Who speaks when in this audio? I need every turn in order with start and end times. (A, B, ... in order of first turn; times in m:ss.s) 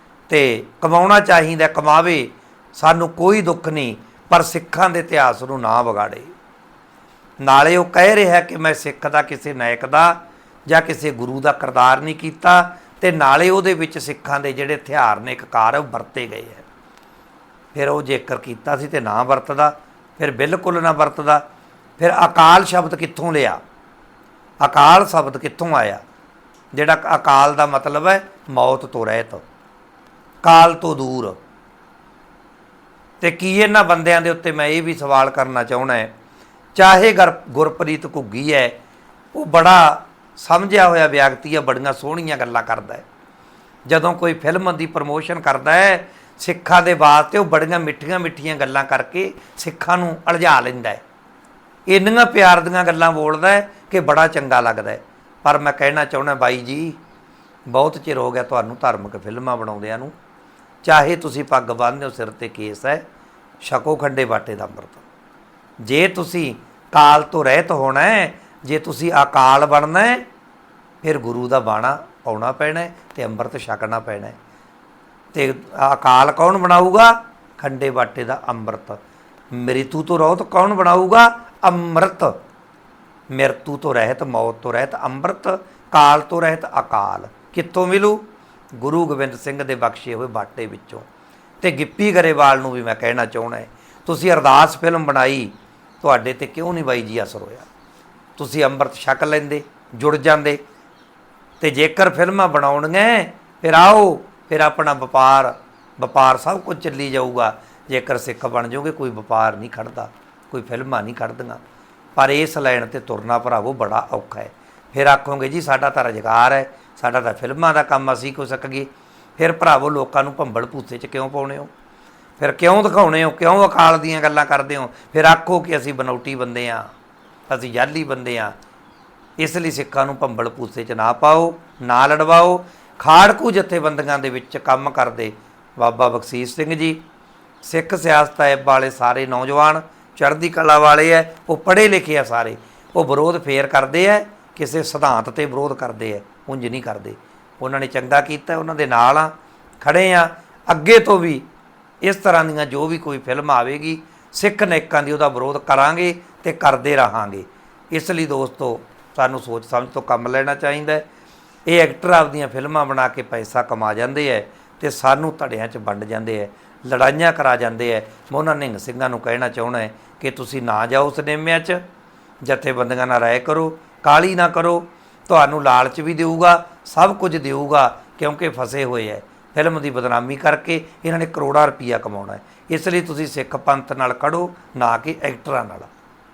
0:00.3-0:06.3 A
0:07.4-0:16.6 A
0:17.7-0:21.4 A
0:22.0-0:23.6 A
0:24.6-0:26.0 A
0:26.7-0:29.4 A
0:30.4-0:31.4 A
0:33.2-0:36.1 A
0:36.8-0:38.8 A
0:39.3-0:43.0 A
0:43.9-0:51.0 A
0:51.9-0:57.0 A
0:57.7-1:00.1 A
1:00.8-1:03.0 A
1:03.6-1:05.0 A
1:05.8-1:10.2 A
1:11.0-1:14.4 A
1:15.3-1:19.0 A
1:19.5-1:22.4 A
1:23.3-1:28.2 A
1:28.8-1:31.1 A
1:31.6-1:37.7 A
1:38.4-1:40.6 A
1:41.6-1:51.6 A
1:52.2-2:01.7 A
2:02.4-2:06.9 A
2:07.5-2:08.5 A
2:09.4-2:17.0 A
2:17.6-2:31.5 A
2:32.0-2:41.0 A
2:41.7-2:51.8 A
2:52.4-3:05.9 A